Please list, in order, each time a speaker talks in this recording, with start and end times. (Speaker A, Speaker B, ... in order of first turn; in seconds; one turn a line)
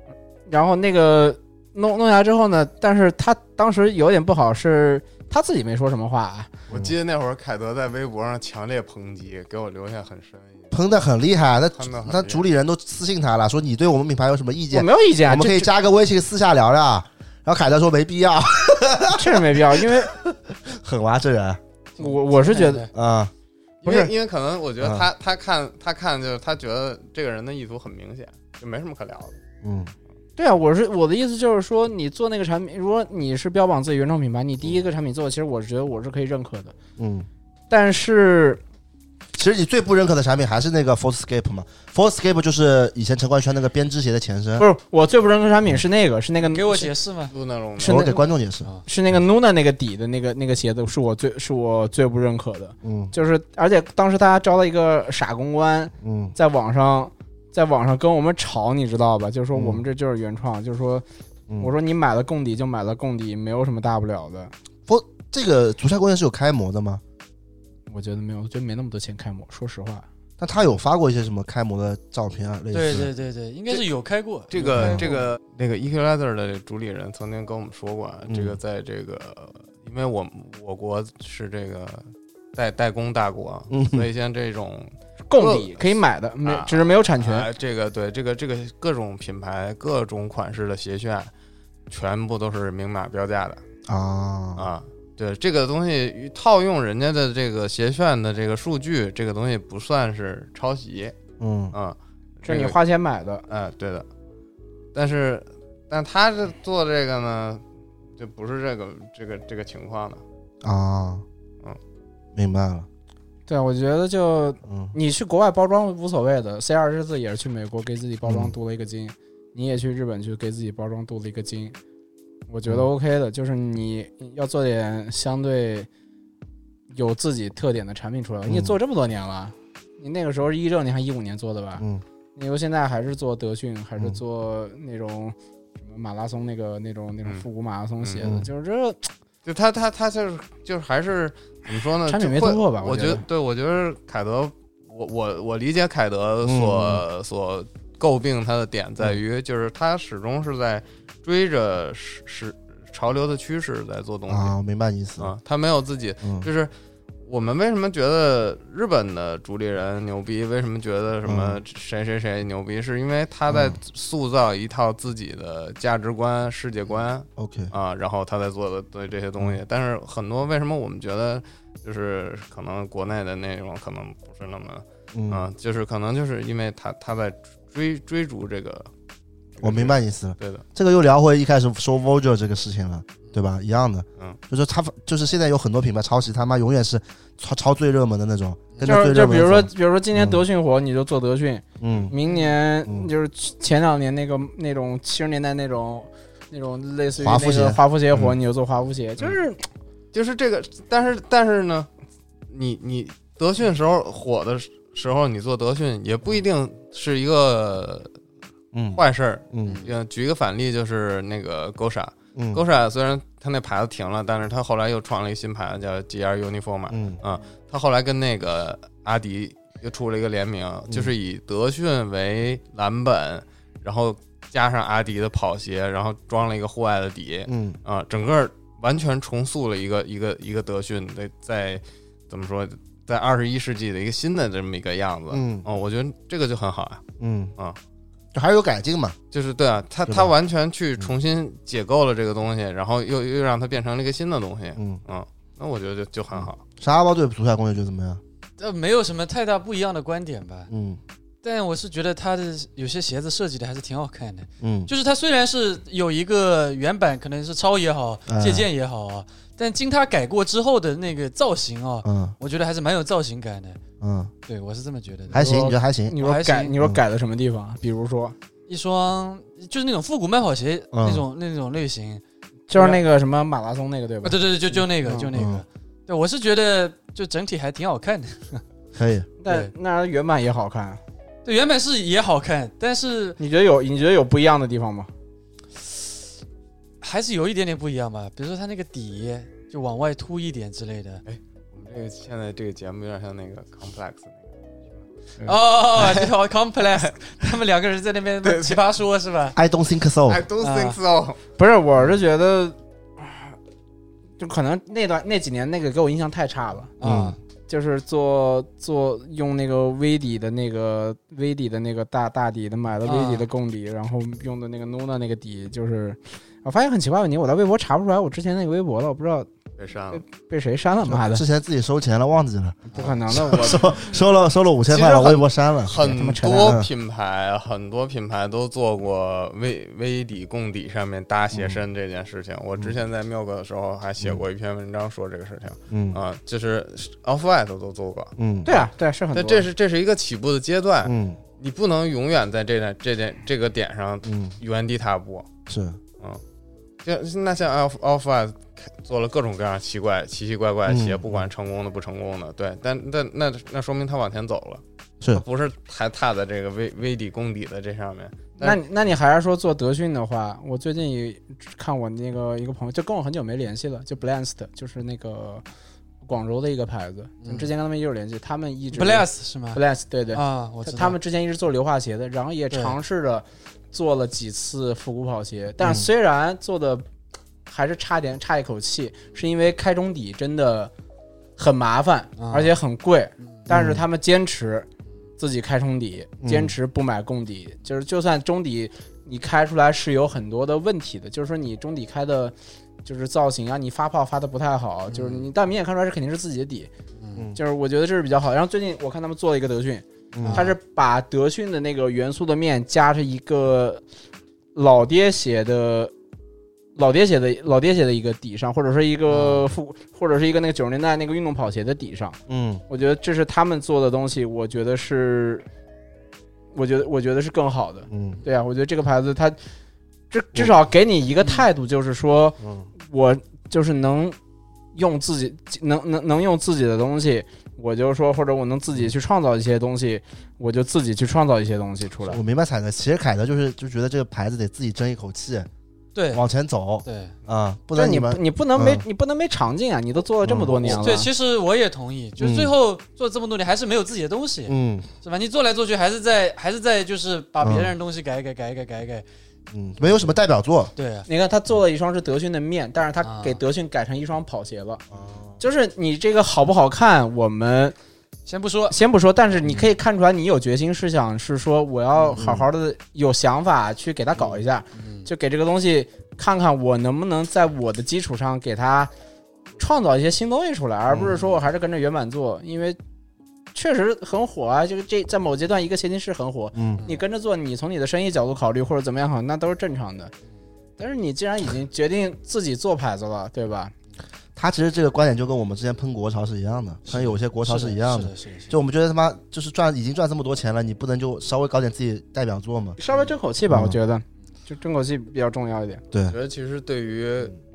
Speaker A: 0.5-6.5
Speaker B: 6.7-10.7
Speaker C: 6.7-7.0
Speaker C: 10.7-21.6
Speaker B: 11.8-12.4
Speaker A: 14.7-15.7
Speaker A: 19.1-20.1
Speaker A: 22.0-22.9
Speaker D: 22.0-22.9
Speaker C: 22.9-23.3
Speaker B: 23.8-29.4
Speaker A: 23.9-24.1
Speaker C: 24.8-25.1
Speaker C: 29.6-29.9
Speaker A: 30.4-36.8
Speaker C: 37.0-37.3
Speaker A: 37.7-38.6
Speaker C: 39.3-44.7
Speaker A: 44.6-46.9
Speaker D: 46.4-47.3
Speaker B: 47.3-48.0
Speaker C: 47.8-48.7
Speaker A: 47.8-48.2
Speaker A: 48.9-61.0
Speaker C: 52.8-53.1
Speaker C: 56.0-56.4
Speaker C: 59.5-59.8
Speaker A: 61.6-64.5
Speaker C: 64.9-67.0
Speaker A: 67.9-70.1
Speaker C: 70.4-73.1
Speaker D: 72.7-75.2
Speaker B: 74.5-91.3
Speaker A: 74.6-75.1
Speaker C: 74.8-75.0
Speaker C: 78.3-78.6
Speaker C: 83.7-84.1
Speaker A: 85.3-87.5
Speaker B: 91.9-93.6
Speaker C: 93.9-94.7
Speaker B: 94.6-101.2
Speaker C: 101.4-101.8
Speaker B: 101.7-102.8
Speaker A: 102.5-103.4
Speaker B: 103.5-104.1
Speaker B: 104.9-107.6
Speaker B: 108.2-110.2
Speaker C: 110.6-111.2
Speaker C: 112.4-112.9
Speaker A: 113.5-121.8
Speaker C: 114.7-115.0
Speaker C: 118.2-118.5
Speaker A: 122.5-125.9
Speaker A: 126.9-139.1
Speaker C: 128.5-128.8
Speaker B: 138.0-138.3
Speaker C: 138.2-138.5
Speaker B: 139.4-154.5
Speaker A: 142.1-143.2
Speaker C: 146.4-147.0
Speaker C: 154.3-155.3
Speaker B: 155.2-156.7
Speaker C: 156.2-156.5
Speaker B: 157.3-178.9
Speaker C: 161.2-161.6
Speaker C: 163.5-163.8
Speaker C: 167.4-167.7
Speaker C: 175.1-175.5
Speaker B: 179.6-180.6
Speaker C: 179.6-190.4
Speaker A: 188.8-199.6
Speaker C: 191.8-192.2
Speaker C: 192.8-193.1
Speaker C: 197.2-198.4
Speaker B: 200.1-201.9
Speaker B: 202.5-208.1
Speaker C: 208.7-209.8
Speaker B: 208.9-237.0
Speaker D: 209.7-209.9
Speaker C: 212.4-212.6
Speaker C: 216.9-217.2
Speaker C: 227.5-227.8
Speaker C: 235.3-235.7
Speaker C: 237.2-237.5
Speaker C: 238.3-239.2
Speaker B: 239.3-246.6
Speaker C: 244.8-245.0
Speaker C: 246.3-248.2
Speaker D: 248.6-250.7
Speaker C: 250.7-251.0
Speaker D: 251.4-263.8
Speaker C: 254.6-254.9
Speaker C: 258.3-258.7
Speaker C: 262.0-262.4
Speaker C: 264.0-264.3
Speaker D: 264.5-265.5
Speaker C: 265.3-266.2
Speaker A: 265.3-268.4
Speaker D: 266.2-266.8
Speaker D: 268.7-272.2
Speaker C: 270.9-271.2
Speaker A: 272.7-275.4
Speaker D: 272.7-273.0
Speaker D: 274.2-278.6
Speaker C: 275.3-275.6
Speaker C: 278.9-279.3
Speaker A: 279.4-281.0
Speaker D: 279.5-279.7
Speaker D: 281.4-283.4
Speaker A: 283.4-285.1
Speaker D: 287.0-291.2
Speaker B: 291.3-294.6
Speaker D: 295.4-299.6
Speaker B: 298.4-298.8
Speaker C: 299.6-300.4
Speaker B: 300.3-301.4
Speaker D: 300.6-301.0
Speaker A: 301.6-303.6
Speaker A: 304.4-306.9
Speaker D: 307.0-307.4
Speaker C: 307.0-307.4
Speaker A: 307.7-319.5
Speaker D: 313.1-313.5
Speaker B: 319.8-320.2
Speaker A: 320.1-321.4
Speaker C: 321.1-326.9
Speaker D: 322.9-323.2
Speaker A: 322.9-324.1
Speaker A: 324.9-325.4
Speaker B: 325.9-345.5
Speaker A: 326.0-326.8
Speaker C: 331.5-331.8
Speaker C: 335.9-336.2
Speaker C: 338.4-338.8
Speaker A: 338.7-339.7
Speaker C: 341.0-341.4
Speaker C: 344.2-344.6
Speaker C: 345.7-346.0
Speaker B: 347.0-358.8
Speaker C: 350.9-351.4
Speaker A: 358.6-365.6
Speaker A: 366.2-377.1
Speaker D: 367.4-367.7
Speaker D: 368.9-371.2
Speaker D: 372.7-373.0
Speaker C: 375.8-376.1
Speaker A: 377.7-380.9
Speaker A: 381.6-384.9
Speaker D: 382.4-382.7
Speaker C: 383.7-384.0
Speaker A: 385.4-396.9
Speaker C: 386.4-386.8
Speaker D: 395.1-395.5
Speaker D: 397.2-397.5
Speaker A: 397.6-404.0
Speaker C: 400.3-400.7
Speaker D: 400.4-400.8
Speaker A: 404.7-406.1
Speaker A: 406.9-412.4
Speaker D: 409.3-409.7
Speaker C: 412.5-412.8
Speaker A: 412.9-415.6
Speaker A: 416.7-419.6
Speaker C: 418.1-418.4
Speaker A: 420.3-424.4
Speaker C: 422.6-422.9
Speaker A: 424.9-432.4
Speaker C: 432.2-435.7
Speaker D: 436.1-436.4
Speaker C: 436.3-439.1
Speaker D: 437.1-437.3
Speaker A: 437.9-441.3
Speaker C: 440.4-441.0
Speaker D: 440.9-449.2
Speaker C: 442.4-442.7
Speaker C: 444.7-445.1
Speaker C: 447.6-447.9
Speaker C: 449.7-450.9
Speaker D: 451.0-451.3
Speaker A: 451.3-455.0
Speaker D: 453.2-453.6
Speaker C: 455.1-455.6
Speaker A: 455.6-457.9
Speaker D: 458.5-459.0
Speaker A: 458.9-469.1
Speaker C: 462.4-462.7
Speaker D: 465.0-465.3
Speaker A: 469.8-473.0
Speaker C: 471.1-471.5
Speaker A: 473.7-480.3
Speaker C: 476.8-477.1
Speaker A: 481.0-483.9
Speaker C: 484.6-493.0
Speaker D: 487.1-488.7
Speaker A: 493.0-496.0
Speaker C: 493.7-494.0
Speaker C: 496.1-496.4
Speaker B: 496.3-497.6